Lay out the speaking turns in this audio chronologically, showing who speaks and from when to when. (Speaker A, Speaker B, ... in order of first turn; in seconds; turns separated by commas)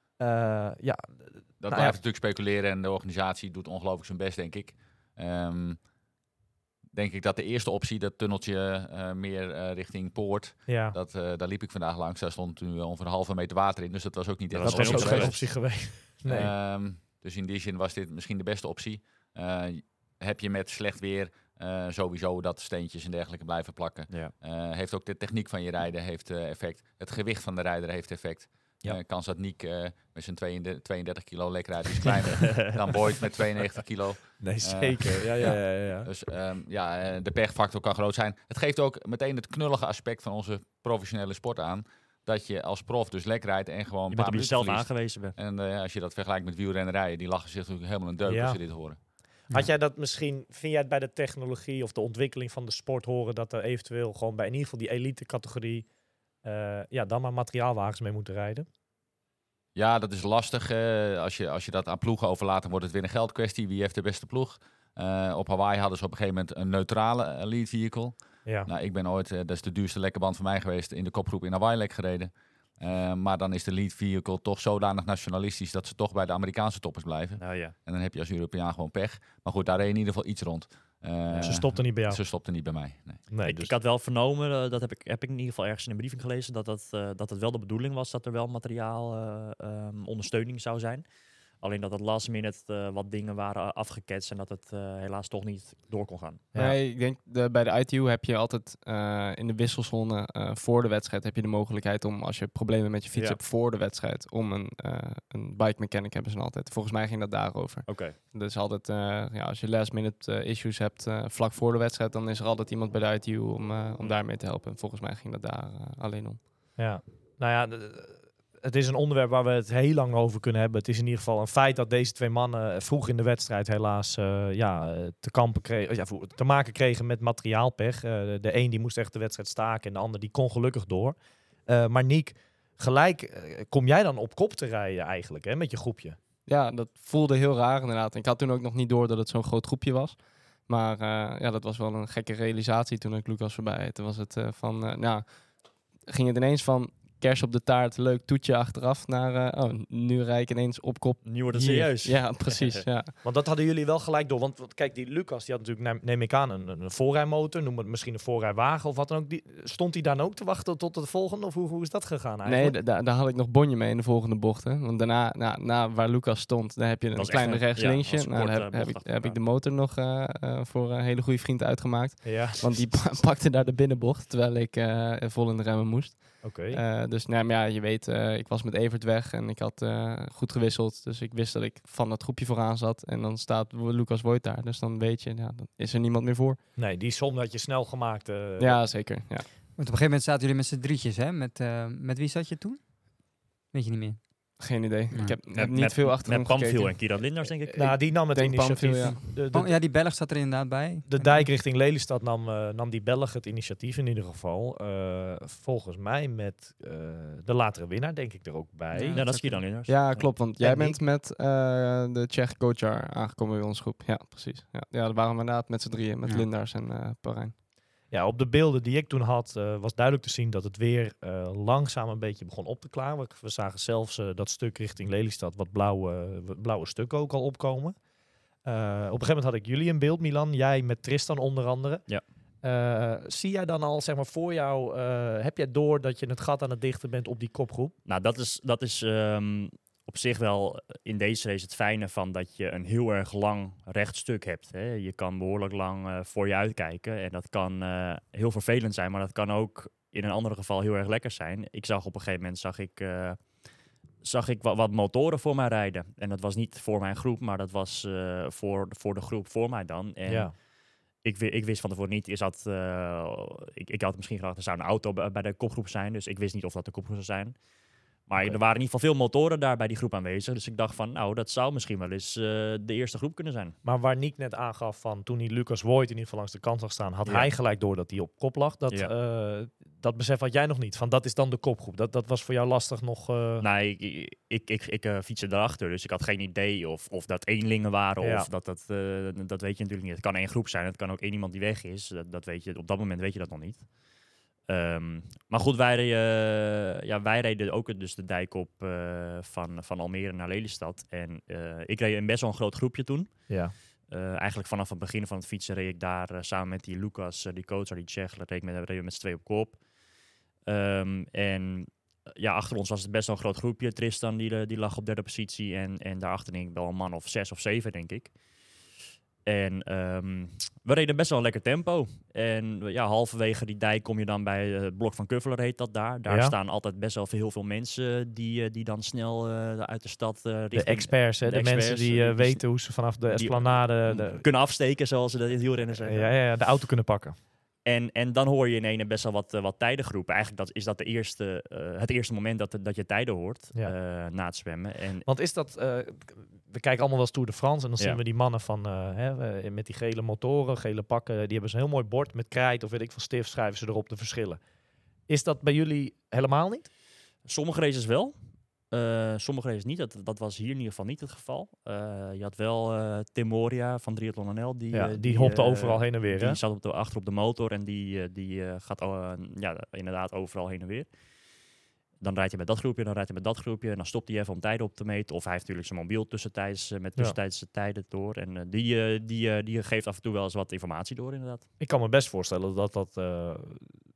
Speaker A: 0.2-2.0, Speaker B: 1.6-5.8, Speaker B: 6.9-49.0, Speaker A: 10.7-10.9, Speaker C: 14.5-15.3, Speaker A: 14.6-16.5, Speaker C: 24.1-24.4, Speaker A: 34.4-36.1, Speaker C: 44.1-45.4, Speaker A: 48.3-48.6, Speaker A: 49.5-55.9, Speaker A: 56.4-58.7, Speaker B: 59.8-83.2, Speaker C: 77.4-77.8, Speaker C: 81.3-81.6, Speaker A: 81.4-82.2, Speaker A: 83.3-83.7, Speaker C: 83.5-91.1, Speaker C: 91.6-96.5, Speaker D: 96.6-116.4, Speaker C: 107.9-108.2, Speaker A: 116.8-131.2, Speaker A: 131.7-136.2, Speaker D: 136.5-145.5, Speaker D: 146.1-153.1, Speaker C: 151.2-152.8, Speaker A: 153.2-162.8, Speaker D: 162.5-186.6, Speaker C: 167.2-169.4, Speaker A: 172.2-172.9, Speaker A: 176.4-176.8, Speaker A: 186.8-188.8, Speaker D: 188.6-189.5, Speaker E: 189.8-192.9, Speaker E: 193.7-194.6, Speaker D: 194.6-199.2, Speaker E: 195.1-195.4, Speaker C: 195.5-198.0, Speaker A: 197.8-199.7, Speaker E: 199.0-201.5, Speaker A: 201.1-209.3, Speaker E: 208.9-209.7, Speaker C: 209.1-210.3, Speaker D: 209.9-217.5, Speaker A: 210.6-211.0, Speaker A: 218.1-228.0, Speaker A: 228.7-232.1, Speaker A: 232.6-237.9, Speaker C: 238.1-253.7, Speaker C: 254.2-260.6, Speaker A: 260.3-260.5, Speaker C: 261.2-267.6, Speaker C: 268.3-273.8, Speaker A: 273.8-283.6, Speaker C: 283.6-293.9, Speaker A: 288.2-288.5, Speaker C: 294.7-309.8, Speaker A: 303.5-303.7, Speaker C: 310.7-318.4, Speaker C: 319.5-336.3, Speaker A: 326.3-326.6, Speaker A: 330.7-334.4, Speaker A: 336.1-337.4, Speaker C: 337.9-345.3, Speaker A: 345.3-354.6, Speaker A: 355.3-356.9, Speaker C: 357.5-358.3, Speaker C: 358.9-371.1, Speaker A: 364.9-366.6, Speaker C: 372.2-381.7, Speaker A: 381.8-383.9